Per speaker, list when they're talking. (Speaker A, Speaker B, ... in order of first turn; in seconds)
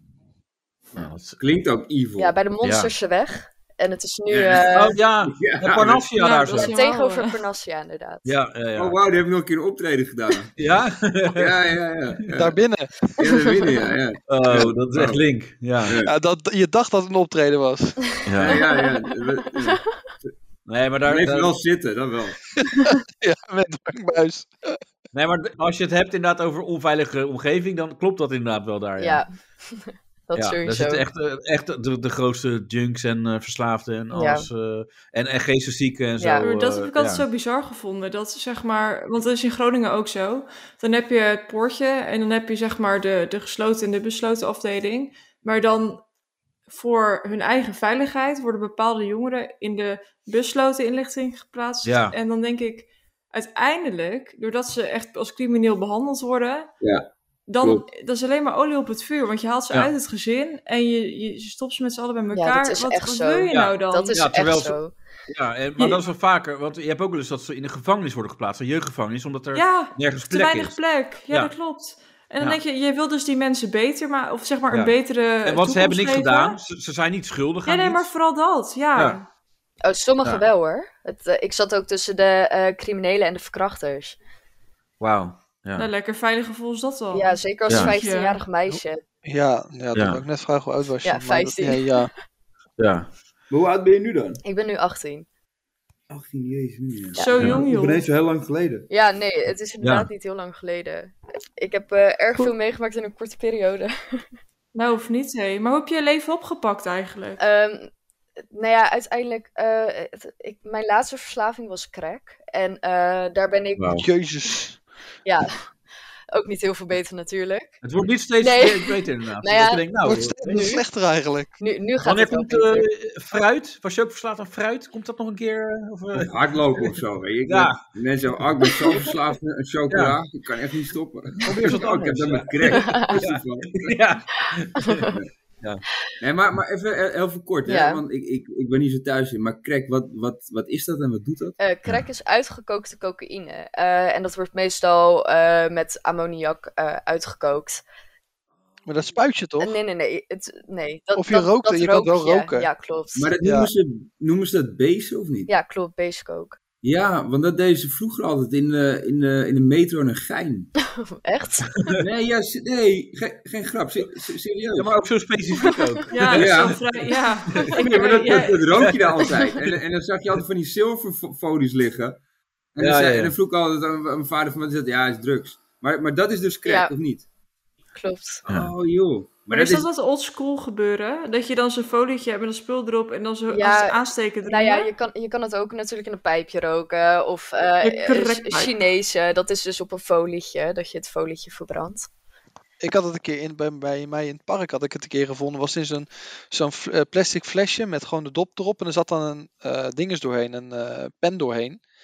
Speaker A: 0.9-1.4, 2.6-2.9, 4.4-6.8, 8.2-9.0, 10.6-11.6, 14.3-16.0, 18.2-18.6, 20.7-21.5, 25.1-29.2, 30.4-37.2, 51.8-52.1, 63.5-64.8, 65.3-70.8, 74.7-78.1, 85.0-85.9, 89.9-90.2, 92.8-93.1, 97.4-97.6, 99.8-100.1, 113.8-114.0, 117.8-120.6, 122.0-126.9, 127.5-127.8, 129.9-130.2, 131.4-135.8, 161.8-162.0, 164.8-166.9, 172.8-173.3, 178.5-178.7
Speaker B: 1.4-2.4, 4.3-4.6, 5.2-6.1, 8.8-10.5, 11.3-12.6, 13.2-15.2, 15.8-16.1, 18.4-20.3, 21.0-22.4, 56.8-57.1, 57.6-57.9, 93.5-94.4, 96.1-98.9, 126.1-134.0, 136.2-141.6, 153.1-155.5, 156.8-160.7, 162.0-165.0, 166.3-166.8, 167.6-172.2, 172.7-177.2, 178.4-179.9
Speaker C: 2.2-5.0, 6.6-8.3, 13.2-13.7, 18.5-20.1, 29.0-31.0, 34.1-34.5, 36.2-36.4, 62.3-64.9, 79.8-84.2, 87.1-89.0, 91.0-92.1, 94.4-95.2, 98.9-104.3, 107.4-107.9, 108.5-114.0, 115.2-115.7, 116.3-117.8, 118.4-119.8, 120.5-120.8, 121.6-122.9, 132.7-133.1, 137.6-138.0, 141.6-147.8, 149.6-153.3, 155.5-156.6, 160.8-161.7, 169.2-169.5, 176.6-176.9, 177.9-178.4, 183.5-192.1
Speaker D: 6.2-7.4, 36.4-46.0, 46.7-56.7, 57.5-64.2, 69.5-76.6, 77.7-79.3, 85.8-88.4, 97.2-98.0, 104.7-107.4, 166.1-168.9, 179.5-184.9, 187.8-188.7
Speaker E: 12.3-13.2, 16.0-18.2, 22.6-24.8, 88.7-92.1, 114.0-114.8, 120.0-121.5, 148.8-149.8, 151.2-152.7, 153.4-153.7, 192.8-201.8